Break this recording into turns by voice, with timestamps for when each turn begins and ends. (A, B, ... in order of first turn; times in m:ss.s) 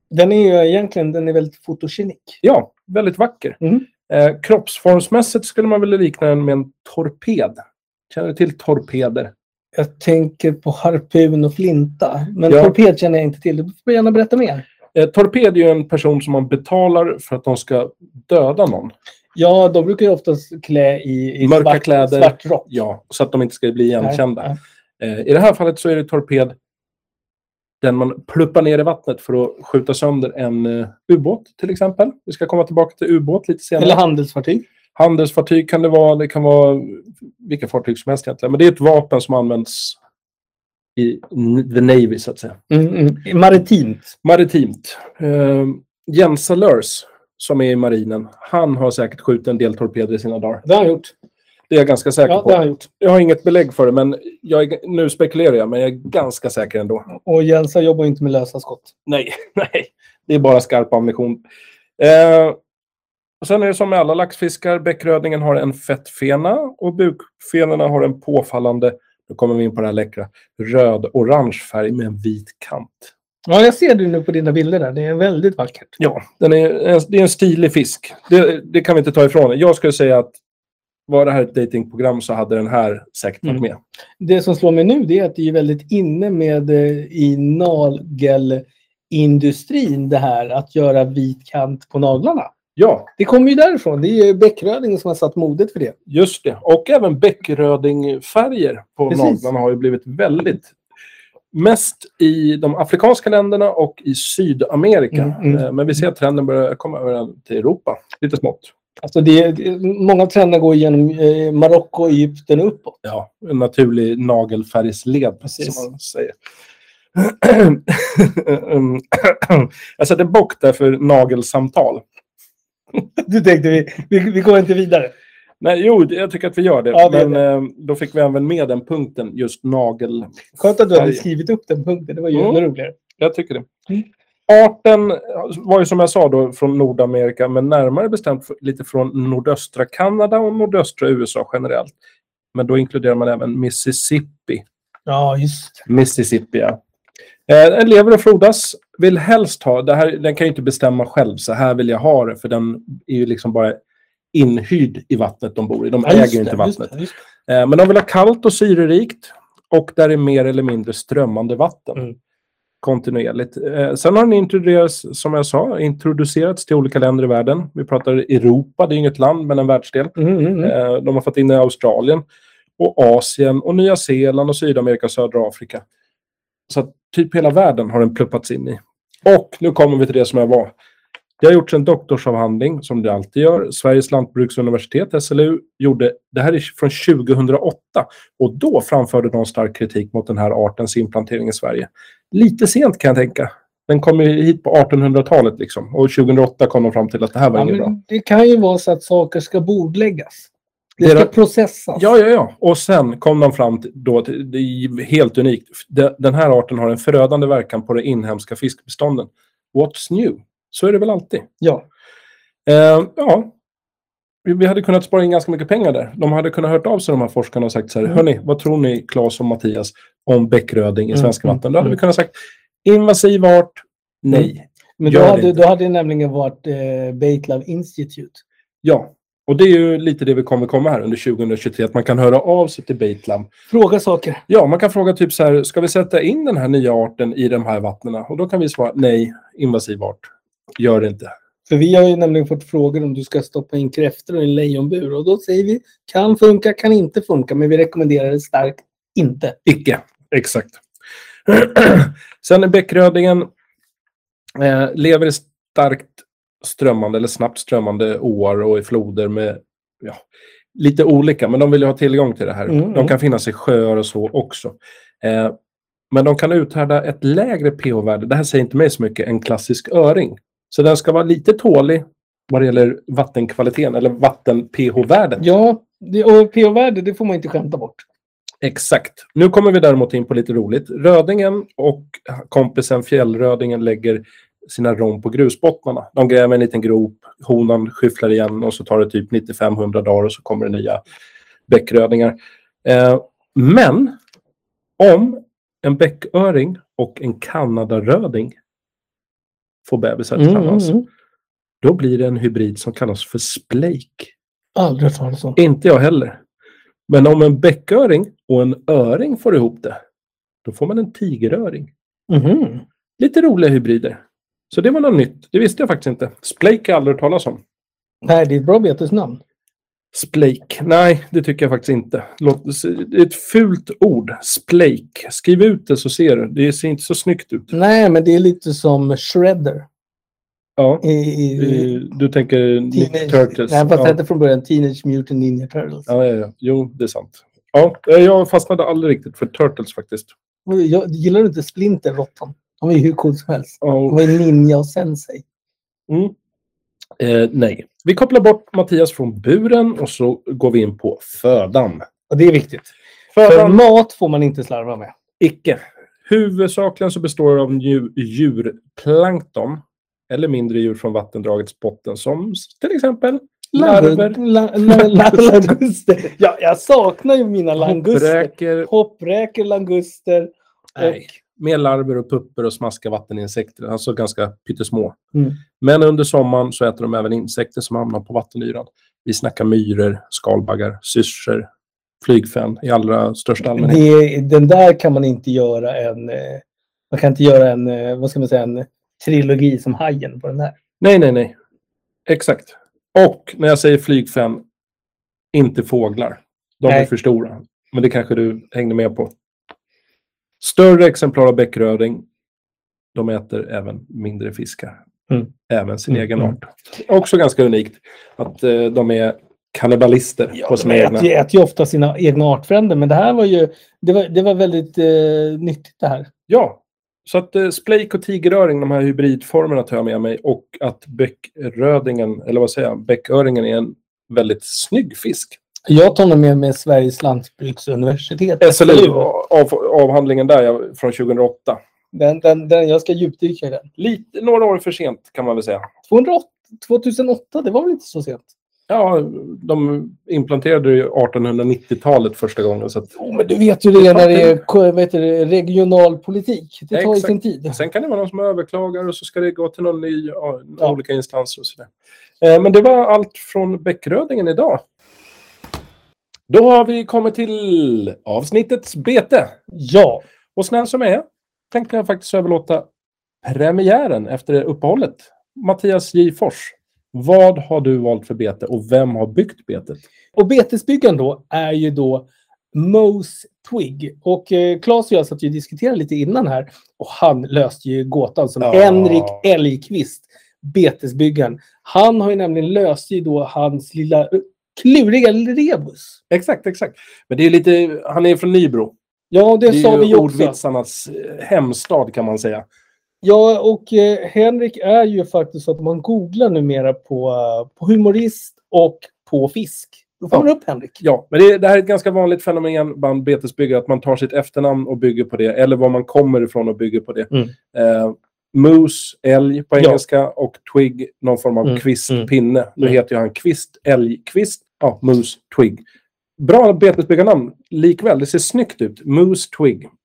0:00.1-0:02.4 A
0:02.4-0:09.3 B
0:09.7-0:14.6 A
0:12.5-0:12.7 B
0:14.9-0:18.9 B
0:19.4-0:22.7 A
0:21.4-0:26.5 B
0:24.0-0:24.6 A
0:27.8-0:34.0 B
0:33.8-0:34.6 A
0:35.0-0:40.0 B
0:41.0-0:42.6 B
0:42.7-0:44.0 A
0:44.2-0:50.6 B
0:50.6-0:51.1 A
0:51.7-0:57.0 B
0:52.2-0:52.8 A
0:57.1-0:58.9 A
0:59.1-1:01.4 B
1:02.0-1:02.6 B
1:03.4-1:13.1 B
1:13.5-1:15.9 A
1:16.0-1:20.4 B
1:21.1-1:23.8 B
1:24.2-1:32.5 A
1:32.8-1:33.1 B
1:33.2-1:36.0 A
1:36.1-1:40.7 B
1:39.1-1:39.4 A
1:41.5-1:48.7 B
1:45.1-1:45.6 A
1:49.0-1:53.0 A
1:53.0-1:56.3 B
1:55.5-1:55.9 A
1:57.1-2:02.0 B
2:03.2-2:05.1 A
2:05.6-2:11.2 B
2:06.9-2:07.4 A
2:10.6-2:13.0 A
2:12.3-2:12.6 B
2:13.1-2:13.7 B
2:14.5-2:21.9 B
2:22.5-2:24.6 B
2:25.1-2:25.8 A
2:25.8-2:26.8 B
2:27.5-2:33.8 B
2:34.3-2:36.9 B
2:36.0-2:37.1 A
2:37.5-2:42.1 B
2:42.8-2:52.2 B
2:50.2-2:50.7 A
2:52.8-2:55.8 B
2:56.7-3:00.7 B
3:01.4-3:17.9 B
3:17.5-3:22.1 A
3:21.0-3:21.3 B
3:22.0-3:31.5 B
3:32.6-3:33.5 B
3:34.4-3:42.3 B
3:41.1-3:41.5 A
3:42.8-3:45.6 B
3:44.3-3:48.4 A
3:48.8-3:53.5 B
3:53.7-3:54.4 A
3:54.5-4:00.2 B
4:00.8-4:01.3 B
4:01.7-4:09.6 A
4:09.6-4:10.8 B
4:11.4-4:13.5 B
4:14.5-4:20.2 B
4:20.7-4:25.5 B
4:22.7-4:23.1 A
4:26.1-4:35.4 B
4:35.4-4:38.0 A
4:38.6-4:51.0 B
4:51.7-4:54.2 B
4:55.0-4:58.5 B
4:59.8-5:00.9 B
5:00.4-5:01.0 A
5:01.8-5:04.3 B
5:04.8-5:05.6 A
5:05.6-5:06.4 B
5:07.1-5:10.0 B
5:10.6-5:11.9 B
5:12.3-5:12.8 A
5:13.2-5:14.2 B
5:14.7-5:17.6 B
5:18.2-5:19.4 A
5:20.1-5:27.7 B
5:27.7-5:29.9 A
5:30.8-5:31.0 B
5:31.0-5:32.0 A
5:31.6-5:34.2 B
5:32.9-5:36.1 A
5:36.1-5:40.3 B
5:40.7-5:45.4 A
5:43.8-5:44.2 B
5:46.1-5:46.3 B
5:47.2-5:52.0 B
5:52.3-5:52.9 A
5:53.3-5:53.8 B
5:53.4-5:55.1 A
5:55.4-6:05.7 B
6:03.7-6:11.4 A
6:07.8-6:08.9 B
6:11.0-6:15.2 B
6:15.8-6:21.6 B
6:22.2-6:24.0 B
6:23.8-6:30.7 A
6:31.0-6:31.5 B
6:32.3-6:34.6 B
6:35.5-6:39.3 B
6:40.6-6:42.2 B
6:43.1-6:45.0 B
6:45.7-6:51.3 B
6:50.5-6:56.3 A
6:56.5-7:05.6 B
7:05.9-7:09.3 A
7:08.6-7:11.8 B
7:12.1-7:13.9 A
7:14.0-7:15.9 B
7:16.1-7:18.5 A
7:18.9-7:23.1 B
7:23.1-7:27.8 A
7:24.0-7:24.6 B
7:26.9-7:31.9 B
7:32.4-7:34.8 B
7:36.5-7:39.5 B
7:39.7-7:40.2 A
7:40.5-7:42.8 B
7:43.4-7:50.0 B
7:50.3-8:06.2 A
7:58.6-7:59.4 B
8:06.3-8:08.9 B
8:09.3-8:10.6 A
8:09.7-8:12.6 B
8:13.2-8:21.0 A
8:21.0-8:35.8 B
8:31.6-8:32.3 A
8:36.4-8:39.9 B